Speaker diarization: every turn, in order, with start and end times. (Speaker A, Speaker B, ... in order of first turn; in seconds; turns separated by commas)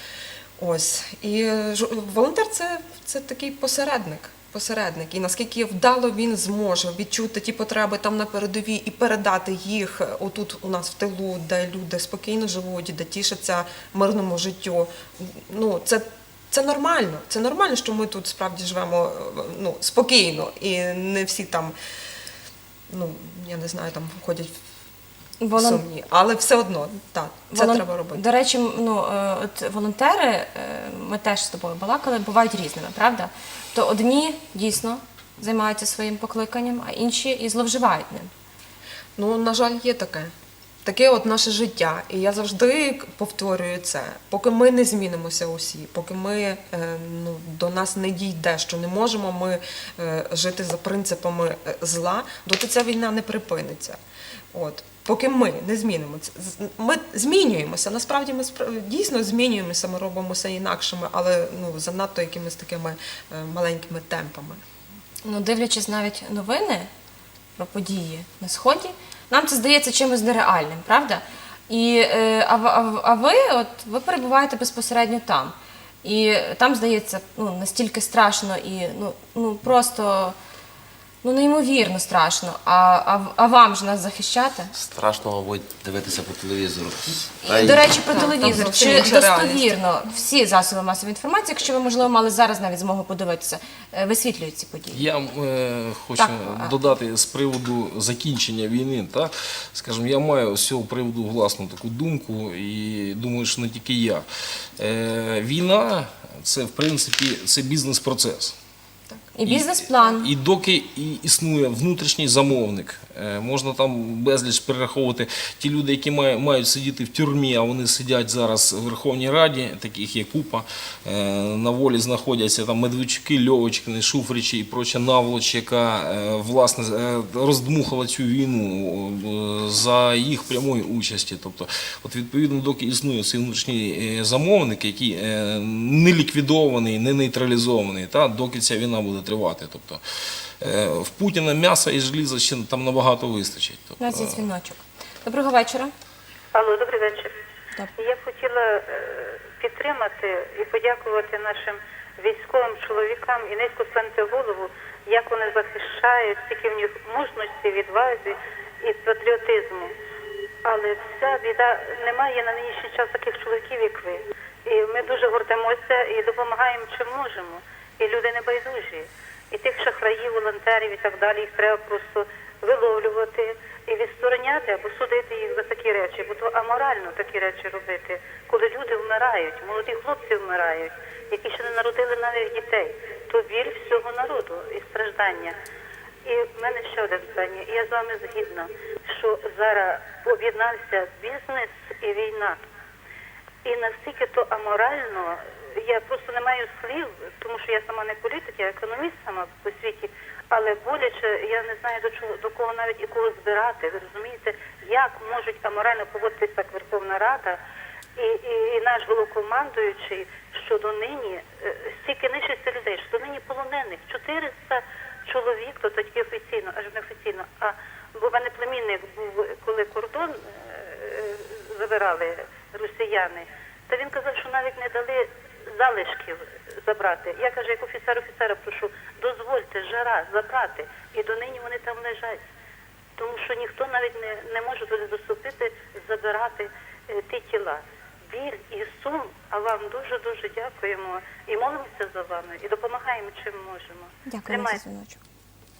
Speaker A: 0.6-21.7, Speaker A: 22.9-24.5, Speaker B: 25.4-25.8, Speaker A: 25.5-28.2, Speaker B: 27.5-38.3, Speaker A: 39.2-40.3, Speaker A: 40.8-54.0, Speaker A: 54.5-64.6, Speaker B: 65.2-66.9, Speaker B: 67.6-80.4, Speaker B: 81.2-84.7, Speaker C: 84.7-87.9, Speaker B: 87.4-95.0, Speaker A: 87.5-89.7, Speaker D: 94.9-104.2, Speaker B: 96.2-96.7, Speaker D: 104.8-108.5, Speaker B: 109.3-110.3, Speaker D: 109.4-140.0, Speaker D: 140.6-144.5, Speaker B: 144.0-145.9, Speaker E: 146.5-147.3, Speaker E: 148.0-159.9, Speaker E: 160.6-185.6, Speaker E: 186.2-192.6, Speaker E: 193.6-207.6, Speaker E: 208.2-232.4, Speaker E: 233.2-244.8, Speaker B: 244.2-245.2